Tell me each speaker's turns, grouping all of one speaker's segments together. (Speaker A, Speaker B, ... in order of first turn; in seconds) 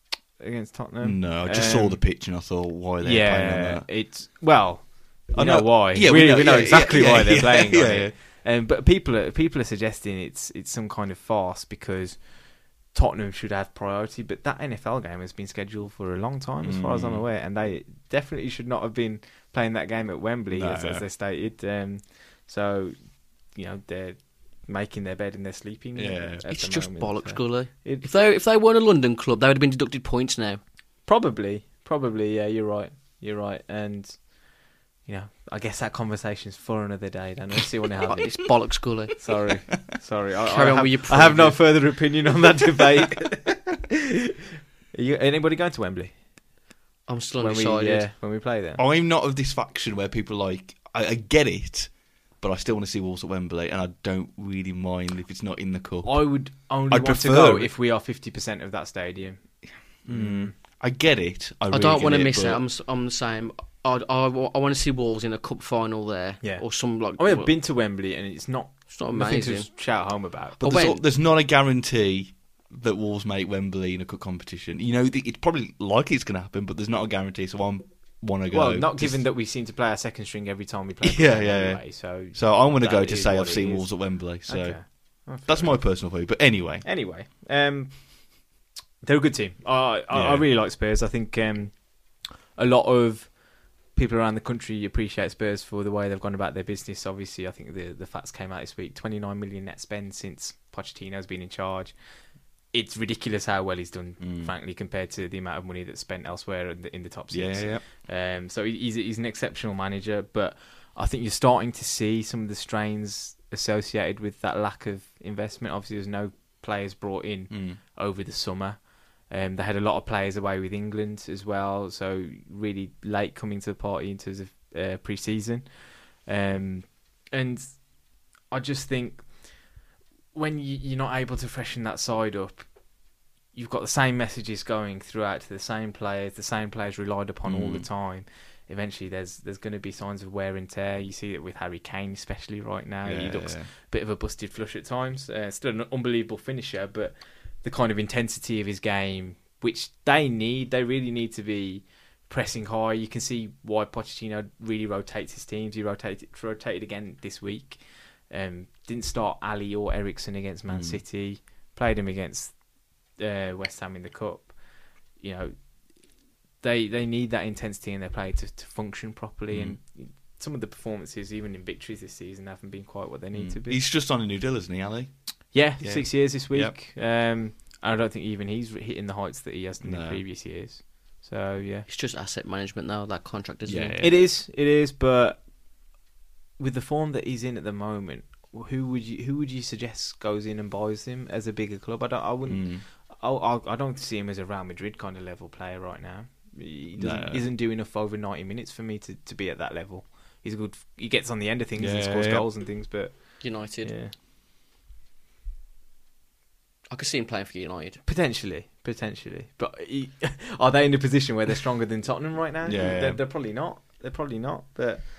Speaker A: 0.4-2.0, 3.0-28.1, 31.1-38.4, 39.2-44.4, 44.9-46.1, 47.4-48.8, 56.0-59.4, 60.0-60.5, 67.2-70.6, 78.5-85.9, 86.8-88.3, 89.0-93.4, 93.9-101.9, 102.7-128.0, 128.5-129.7, 130.3-132.7, 133.5-162.6, 163.2-164.6, 165.2-165.5, 166.6-173.8, 175.5-181.9, 184.0-185.4, 186.6-204.1, 208.1-215.0
Speaker B: 1.0-3.9, 5.3-8.1, 16.6-17.2, 20.5-21.1, 25.9-26.4, 48.8-56.2, 56.9-57.7, 60.1-62.6, 70.6-79.2, 81.0-86.8, 90.1-90.5, 104.2-104.5, 107.3-107.8, 117.5-117.8, 137.4-137.8, 143.0-143.7, 160.7-161.0, 169.5-169.8, 173.3-175.1, 175.8-176.7, 179.8-180.2, 183.6-184.1, 192.5-192.8, 197.0-197.4, 201.8-202.4, 212.6-213.2
Speaker C: 26.4-30.6, 38.1-39.1, 40.5-41.6, 47.1-48.0, 61.7-67.5, 68.9-69.7, 70.6-71.0, 181.9-184.2, 203.4-203.9, 206.9-208.0